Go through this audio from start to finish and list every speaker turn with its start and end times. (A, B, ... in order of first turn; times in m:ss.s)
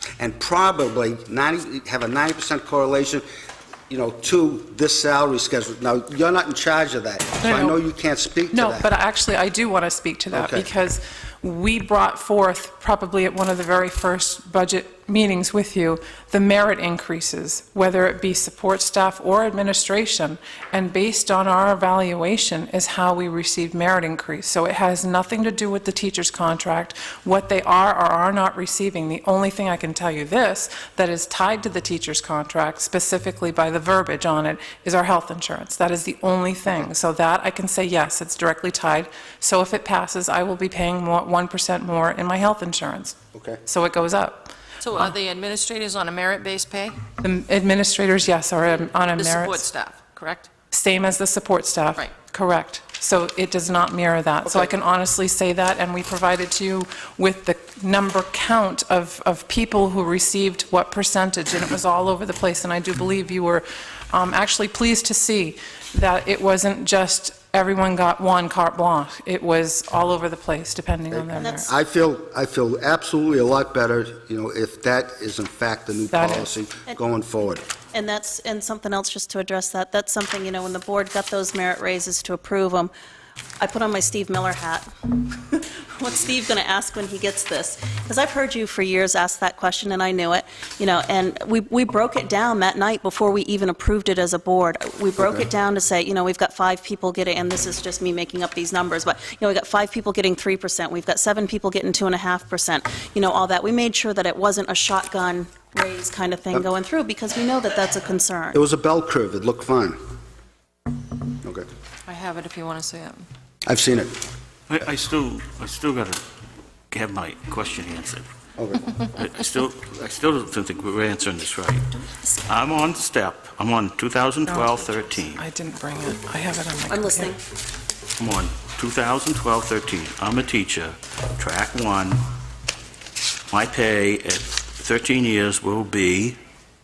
0:00.2-0:03.2 A
0:03.9-0:08.9 A
0:07.4-0:07.8 B
0:08.5-0:43.2 B
0:10.3-0:10.6 A
0:43.3-0:43.6 A
0:43.7-0:45.1 B
0:44.8-0:47.0 C
0:47.2-0:49.6 B
0:48.6-0:50.5 C
0:50.7-1:11.7 B
1:11.1-1:17.6 A
1:11.4-1:11.7 D
1:16.1-1:16.5 B
1:17.9-1:22.9 D
1:23.6-1:24.9 D
1:25.5-1:48.6 D
1:35.2-1:35.5 A
1:48.5-1:50.0 A
1:52.1-1:53.3 C
1:53.6-1:54.1 A
1:54.7-1:56.2 E
1:56.9-1:58.2 E
1:58.6-1:58.9 A
1:59.0-2:01.9 E
2:02.1-2:02.4 D
2:02.5-2:05.4 E
2:04.5-2:07.3 B
2:06.9-2:07.4 D
2:08.2-2:12.2 E
2:13.5-2:16.4 E